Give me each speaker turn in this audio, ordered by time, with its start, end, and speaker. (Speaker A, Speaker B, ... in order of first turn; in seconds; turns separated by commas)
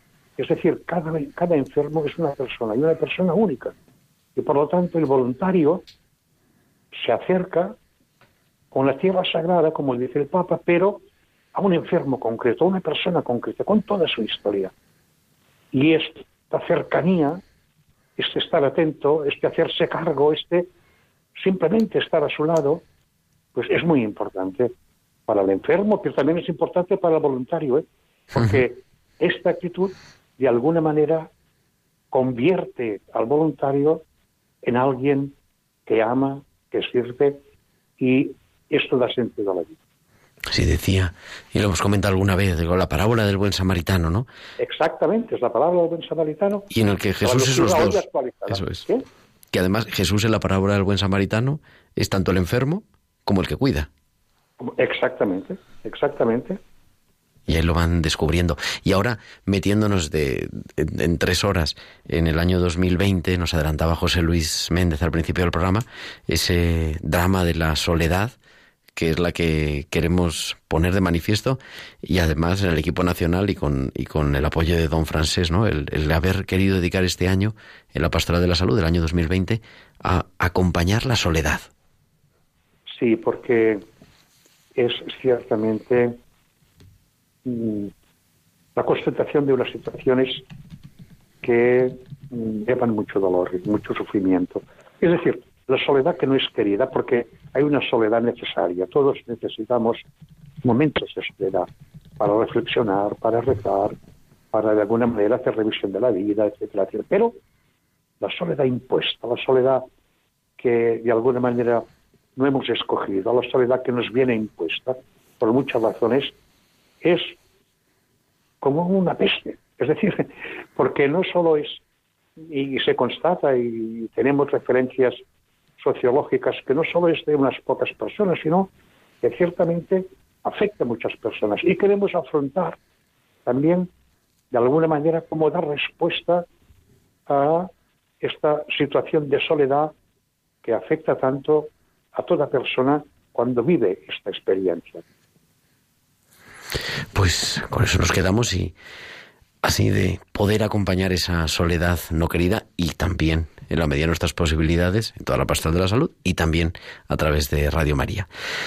Speaker A: 0.4-3.8, Speaker A: 4.4-5.8, Speaker A: 7.0-7.8, Speaker A: 8.7-14.7, Speaker A: 15.7-17.4, Speaker A: 18.2-20.7, Speaker A: 21.4-22.8, Speaker A: 23.6-24.7, Speaker A: 25.3-31.3, Speaker B: 28.3-28.6, Speaker A: 32.1-34.0, Speaker A: 34.6-35.4, Speaker A: 35.9-37.4, Speaker A: 38.0-39.8, Speaker B: 40.5-44.3, Speaker A: 44.6-46.7, Speaker B: 46.7-48.9, Speaker A: 47.2-49.0, Speaker B: 49.5-53.9, Speaker A: 54.6-56.6, Speaker B: 57.5-68.3, Speaker B: 69.0-81.7, Speaker A: 82.9-83.8, Speaker A: 84.8-86.2, Speaker A: 87.5-87.9, Speaker A: 88.8-90.5, Speaker A: 91.4-100.0, Speaker A: 100.7-101.7, Speaker A: 102.2-104.0, Speaker A: 104.5-107.4, Speaker A: 108.2-109.8, Speaker A: 110.6-111.8, Speaker A: 112.4-116.3, Speaker A: 117.0-117.4, Speaker A: 118.6-121.8, Speaker A: 122.5-125.2, Speaker A: 125.8-132.8, Speaker A: 133.5-133.9, Speaker A: 134.5-136.5, Speaker A: 137.3-137.7, Speaker A: 138.2-139.9, Speaker A: 140.6-145.0, Speaker B: 147.1-148.7, Speaker B: 149.6-158.3